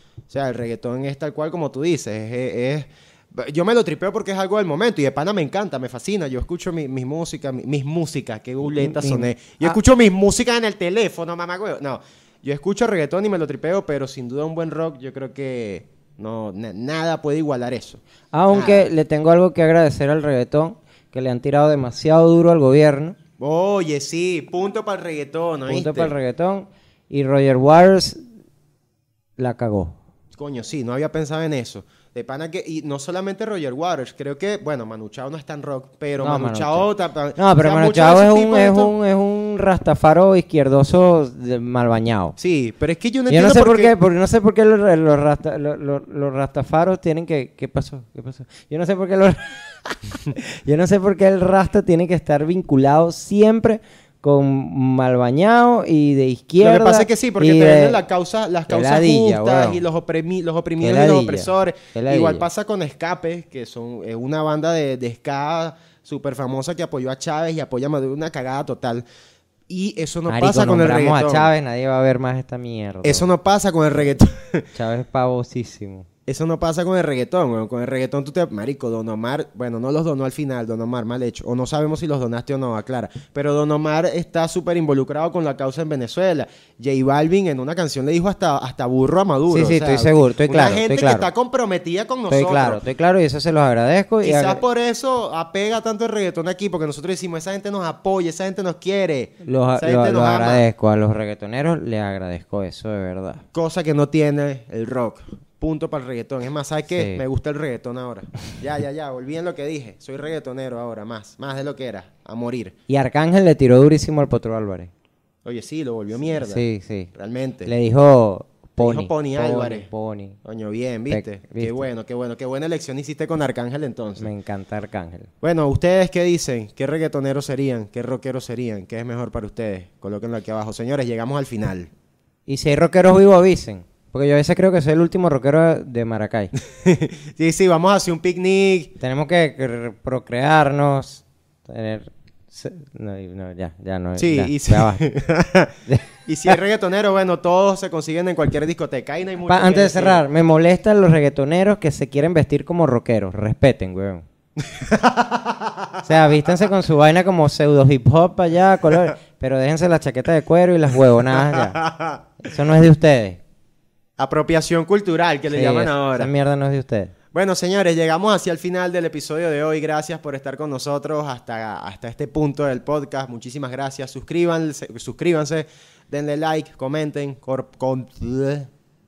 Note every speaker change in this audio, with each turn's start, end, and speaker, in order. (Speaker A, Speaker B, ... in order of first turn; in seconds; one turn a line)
Speaker A: 0.3-18.9
Speaker B: 8.8-9.8
Speaker B: 18.3-23.2
Speaker A: 23.4-26.1
Speaker B: 25.7-28.2
Speaker B: 29.4-30.0
Speaker A: 30.3-38.9
Speaker B: 36.2-42.4
Speaker A: 42.4-43.9
Speaker B: 43.3-58.0
Speaker A: 56.6-69.0
Speaker B: 58.7-59.8
Speaker B: 60.8-62.5
Speaker A: 69.7-71.5
Speaker B: 70.3-73.3
Speaker A: 73.0-74.7
Speaker B: 74.7-76.0
Speaker A: 76.3-92.8
Speaker B: 89.5-91.3
Speaker B: 92.3-94.6
Speaker A: 94.2-100.6
Speaker B: 99.4-103.5
Speaker A: 103.5-112.7
Speaker B: 106.9-107.2
Speaker B: 112.9-114.9
Speaker A: 115.4-117.7
Speaker B: 116.4-117.1
Speaker B: 117.6-120.4
Speaker A: 118.8-119.9
Speaker A: 120.4-124.3
Speaker B: 121.1-121.9
Speaker B: 124.2-125.3
Speaker A: 125.4-131.9
Speaker B: 132.5-136.5
Speaker A: 136.6-138.9
Speaker B: 139.0-145.1
Speaker A: 144.2-150.2
Speaker B: 145.9-146.6
Speaker B: 149.5-154.2
Speaker A: 154.6-156.1
Speaker B: 156.1-161.8
Speaker A: 161.4-162.2
Speaker B: 162.4-163.4
Speaker A: 164.2-166.3
Speaker B: 165.5-167.1
Speaker A: 167.3-178.7